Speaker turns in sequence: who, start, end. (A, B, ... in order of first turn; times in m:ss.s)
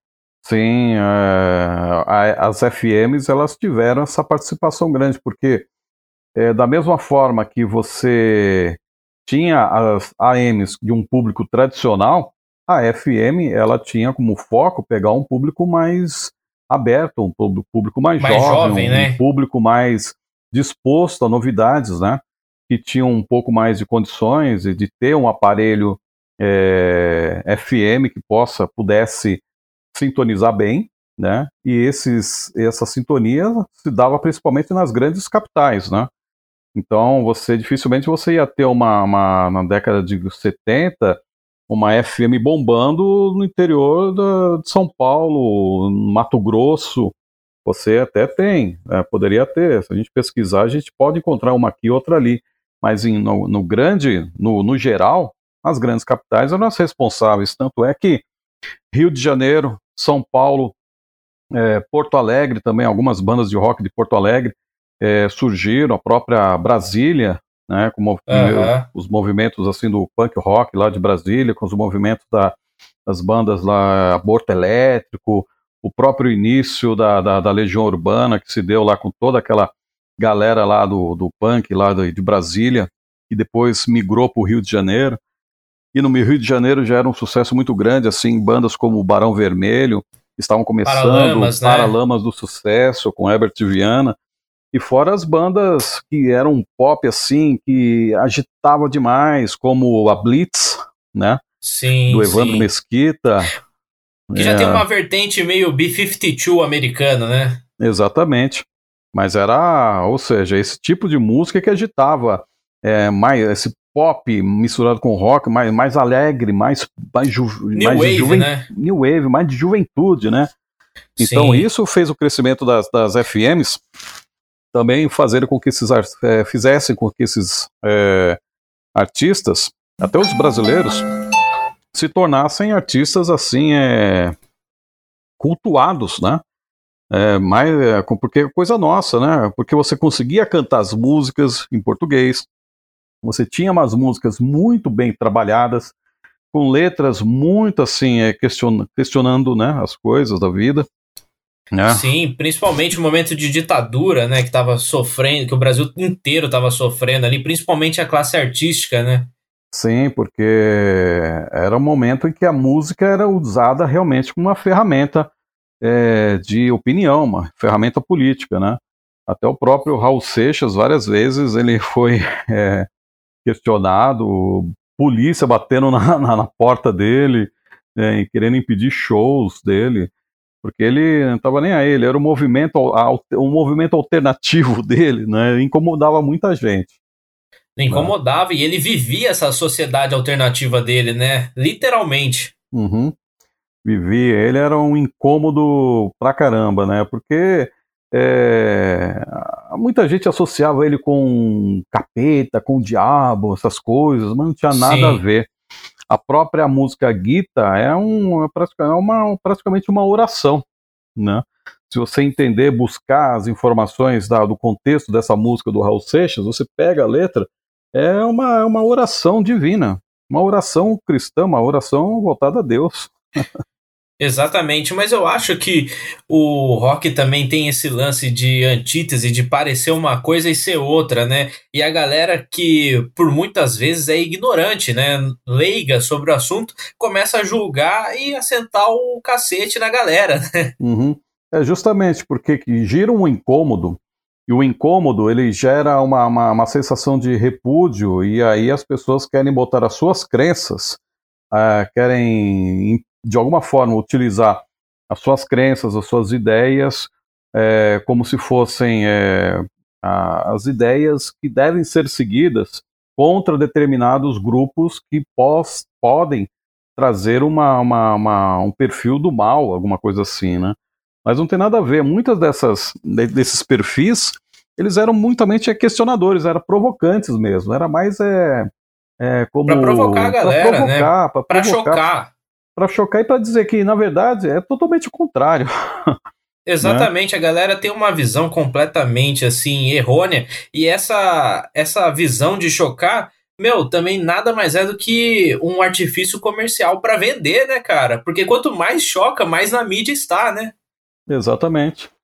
0:00.4-0:05.7 A
0:06.4-0:29.4 A
0:18.2-0:19.2 B
0:29.9-0:36.1 A
0:36.8-0:47.1 A
0:47.6-0:58.2 A
0:58.9-1:00.8 A
1:01.5-1:12.6 A
1:08.3-1:08.9 B
1:13.1-1:25.2 A
1:25.9-1:34.2 A
1:30.8-1:32.0 B
1:34.7-1:41.4 A
1:41.6-1:42.7 B
1:42.1-1:43.5 A
1:44.3-1:44.8 A
1:44.4-1:47.6 B
1:47.8-2:00.5 A
1:57.7-1:58.7 B
2:01.2-2:01.7 B
2:01.2-2:03.8 A
2:04.7-2:08.4 A
2:09.0-2:11.0 A
2:11.9-2:14.4 A
2:15.4-2:16.4 A
2:17.1-2:22.5 A
2:23.2-2:25.9 A
2:26.5-2:30.9 A
2:31.7-2:32.1 A
2:31.9-2:39.3 B
2:39.7-2:45.3 A
2:45.8-2:52.9 A
2:53.4-3:00.1 A
3:00.6-3:06.9 A
3:07.8-3:12.5 B
3:12.7-3:13.2 A
3:13.8-3:25.5 A
3:24.7-3:25.2 B
3:26.1-3:30.6 A
3:31.2-3:43.1 A
3:44.2-4:00.7 B
4:00.8-4:11.0 A
4:11.5-4:42.0 A
4:39.7-4:42.3 B
4:42.8-4:46.2 A
4:46.7-5:00.7 B
4:46.8-4:47.1 A
5:01.3-5:02.1 A